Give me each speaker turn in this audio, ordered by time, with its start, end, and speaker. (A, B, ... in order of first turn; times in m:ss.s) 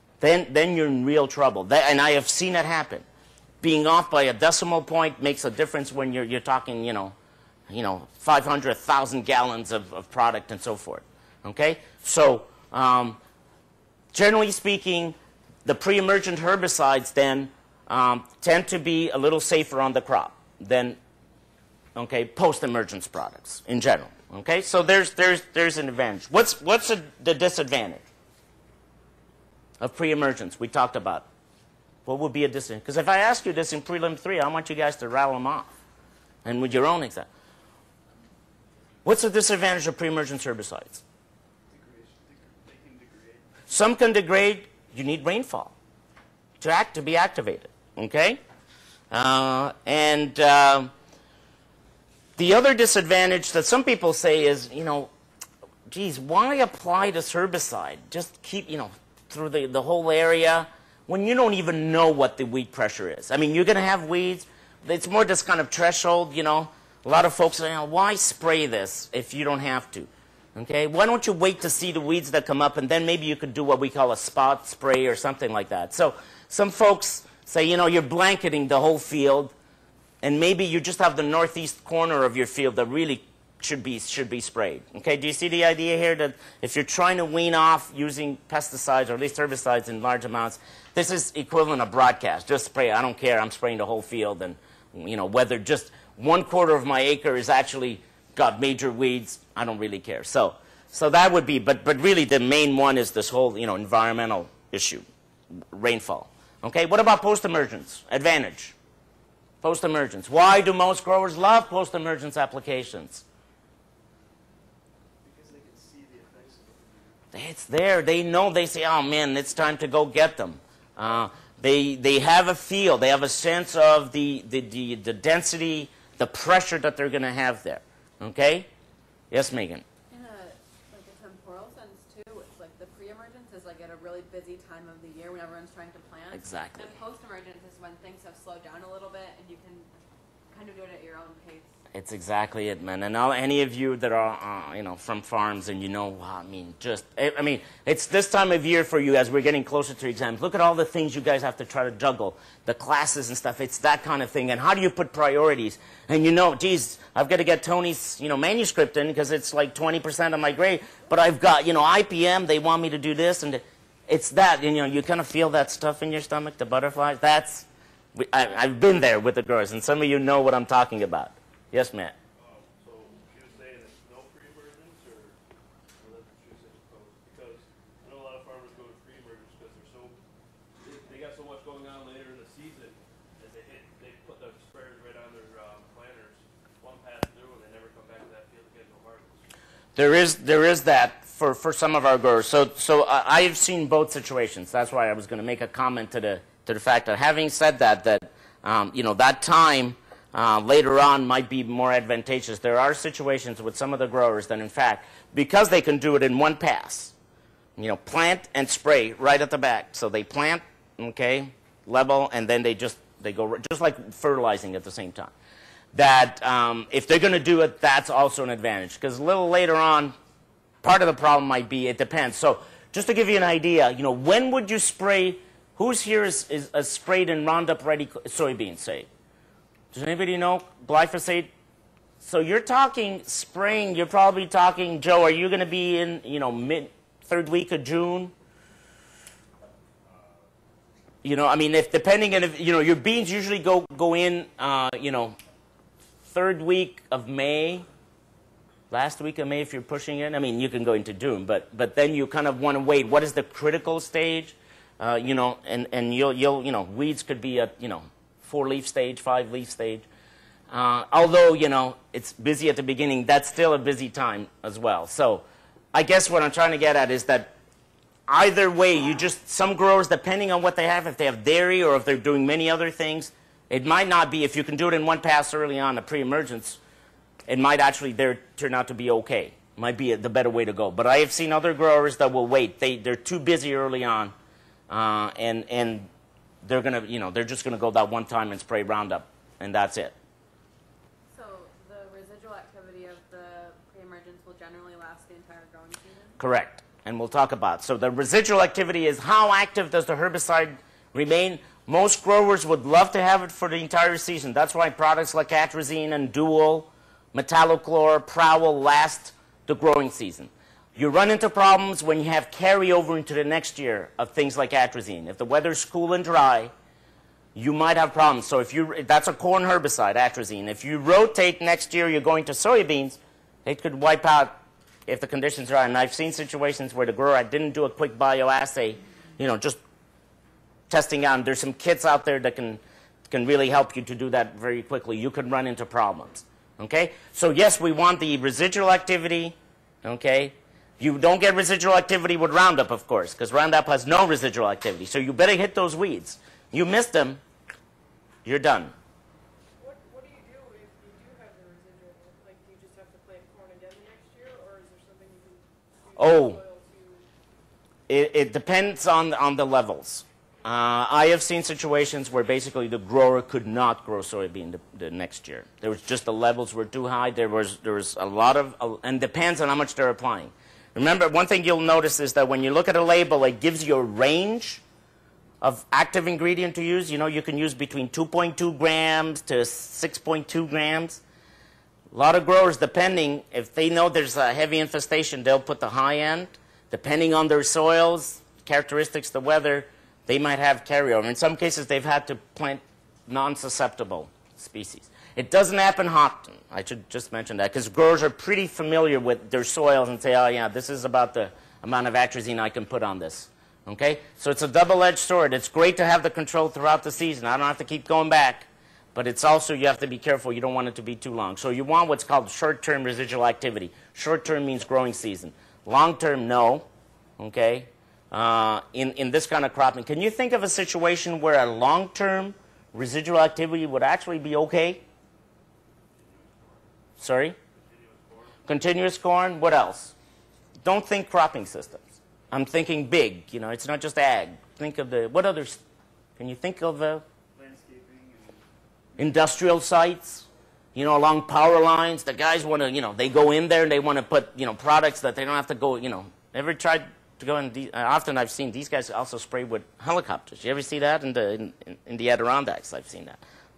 0:00.2-0:03.0 A
0:03.6-0:07.1 A
0:07.7-0:13.2 A
0:14.1-0:21.0 A
0:22.0-0:28.0 A
0:29.8-0:31.3 A
0:32.1-0:35.7 A
0:36.4-0:37.3 A
0:39.0-0:41.0 A
0:41.7-0:43.5 B
0:43.7-0:45.7 A
0:46.6-0:48.4 A
0:49.1-0:50.9 A
0:52.4-0:55.1 A
0:55.9-1:19.5 A
1:20.2-1:45.0 A
1:45.7-1:48.8 A
1:49.6-1:53.2 A
1:55.2-1:57.2 B
1:57.3-2:08.7 A
2:09.3-2:09.8 A
2:10.1-2:19.9 C
2:16.3-2:17.0 A
2:20.5-2:21.7 C
2:21.9-2:52.1 A
2:52.4-2:55.4 D
2:56.0-3:00.2 D
3:00.8-3:09.5 D
3:10.0-3:27.1 A
3:27.8-3:35.3 A
3:35.9-3:40.2 A
3:40.8-3:49.1 A
3:49.9-3:51.5 A
3:52.2-3:58.3 A
4:01.2-4:05.4 A
4:06.3-4:07.9 A
4:08.9-4:20.1 A
4:20.7-4:27.5 A
4:28.3-4:36.8 A
4:37.5-4:44.3 A
4:44.9-4:46.1 A
4:46.6-4:50.1 A
4:51.3-4:56.4 C
4:56.4-5:16.7 A
5:17.6-5:29.8 A
5:30.9-5:47.4 A
5:48.4-5:48.9 A
5:49.8-5:57.3 E
5:56.2-5:56.6 A
5:58.1-6:14.8 A
6:15.6-6:21.2 A
6:22.1-6:56.9 A
6:57.4-7:05.0 A
7:06.2-7:06.8 D
7:07.2-7:07.6 A
7:07.7-7:08.6 D
7:08.7-7:10.1 A
7:10.8-7:15.8 A
7:16.4-7:17.2 A
7:17.6-7:18.6 B
7:19.2-7:33.4 A